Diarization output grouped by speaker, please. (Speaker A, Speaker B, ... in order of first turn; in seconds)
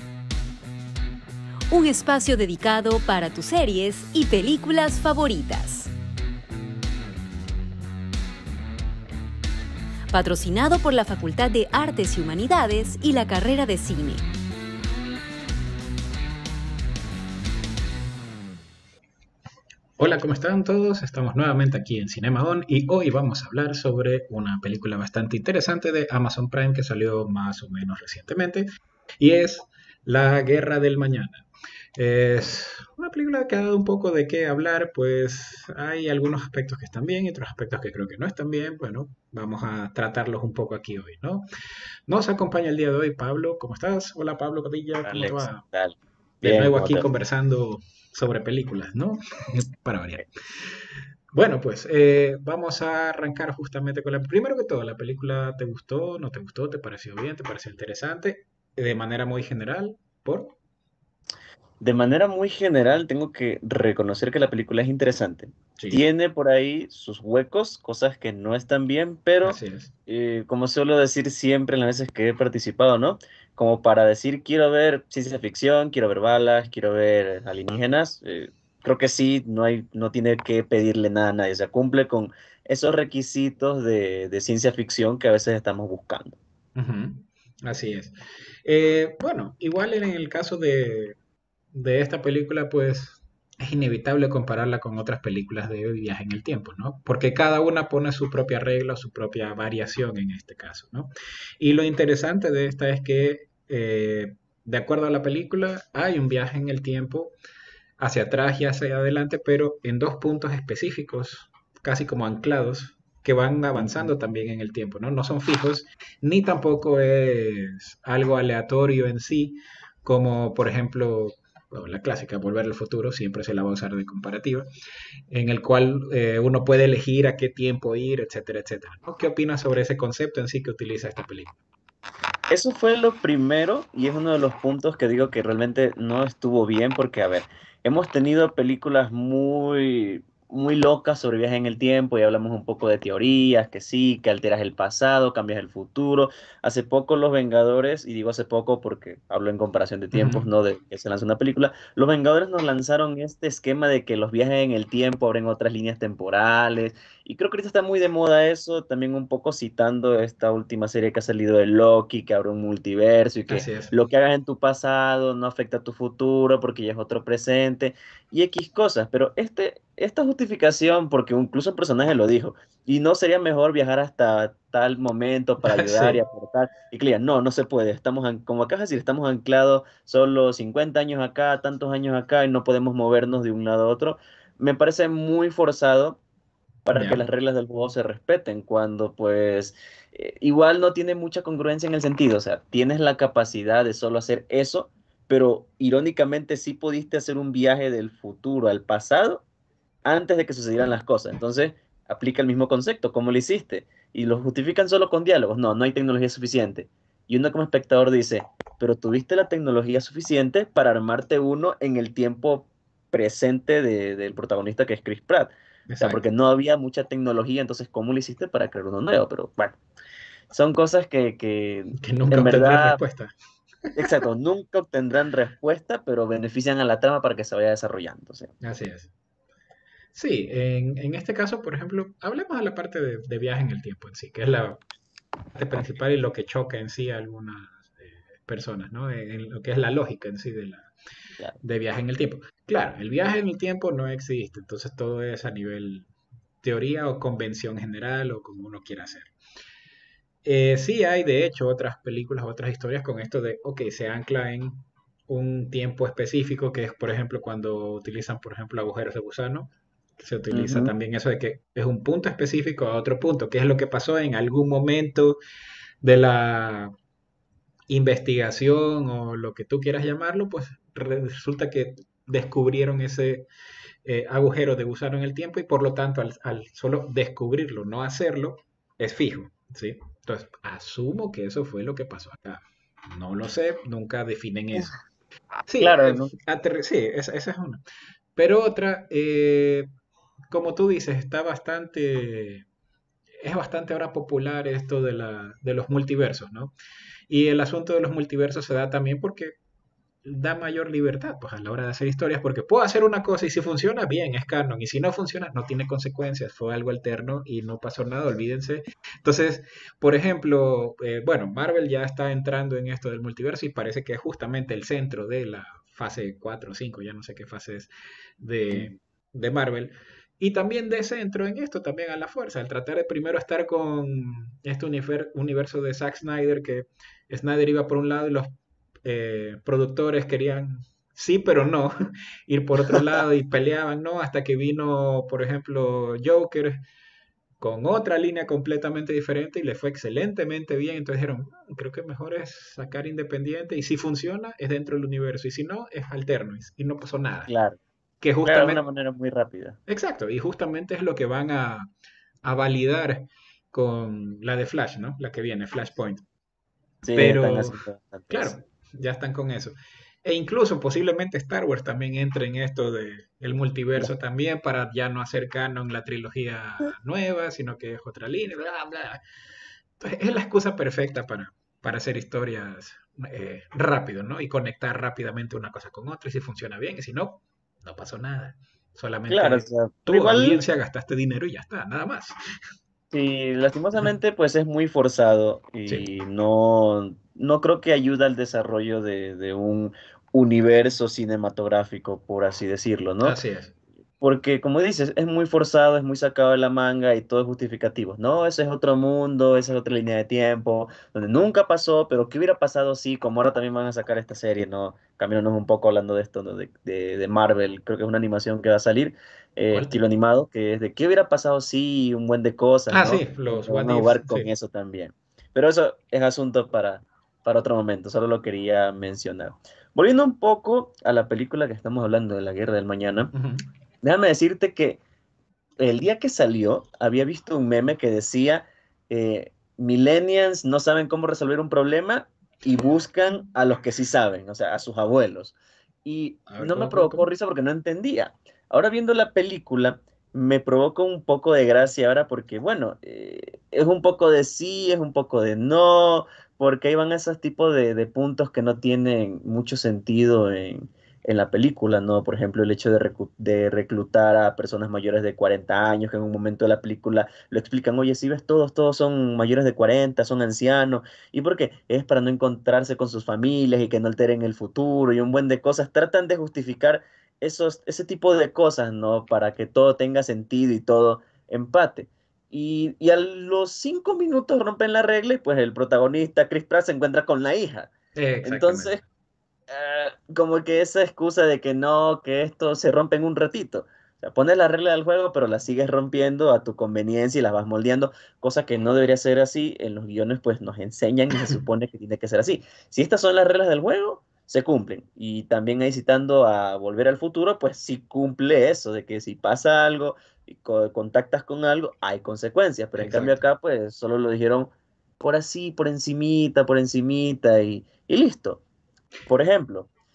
Speaker A: 1.7-5.9, 10.1-14.2
Speaker B: 20.0-28.7, 29.2-41.5, 42.1-45.6, 46.4-50.8, 51.3-60.5, 65.8-66.0, 69.4-69.9, 86.8-91.2, 91.7-107.3, 108.0-124.7, 125.3-131.5, 150.1-150.5, 163.5-163.9, 175.6-176.2, 186.9-187.2, 215.9-216.2, 222.0-223.3, 223.9-224.2, 228.6-229.1, 230.1-234.8, 235.6-240.9, 241.6-246.1, 246.6-249.3, 250.4-265.4, 266.0-266.9, 267.9-273.5, 274.1-284.9, 285.7-287.8, 288.4-289.9, 290.5-292.7, 293.4-296.7, 297.3-299.6, 300.2-328.5, 329.1-331.9, 332.5-336.8, 337.6-347.5, 348.2-348.8, 349.9-351.9, 352.4-356.2, 357.1-369.2, 370.0-382.4, 393.2-393.7, 409.7-410.0, 412.9-414.5, 423.3-423.7, 436.5-437.3, 478.2-479.0, 503.0-503.4
Speaker C: 45.0-47.1, 61.8-86.4, 113.8-114.1, 132.5-186.2, 186.8-199.4, 200.1-219.8, 220.5-223.0, 224.0-228.5, 260.5-260.9, 285.8-286.3, 347.5-347.8, 348.4-349.8, 357.0-358.5, 379.3-380.6, 383.1-393.4, 394.2-423.3, 424.0-425.0, 425.8-479.0, 479.7-508.6, 509.3-509.9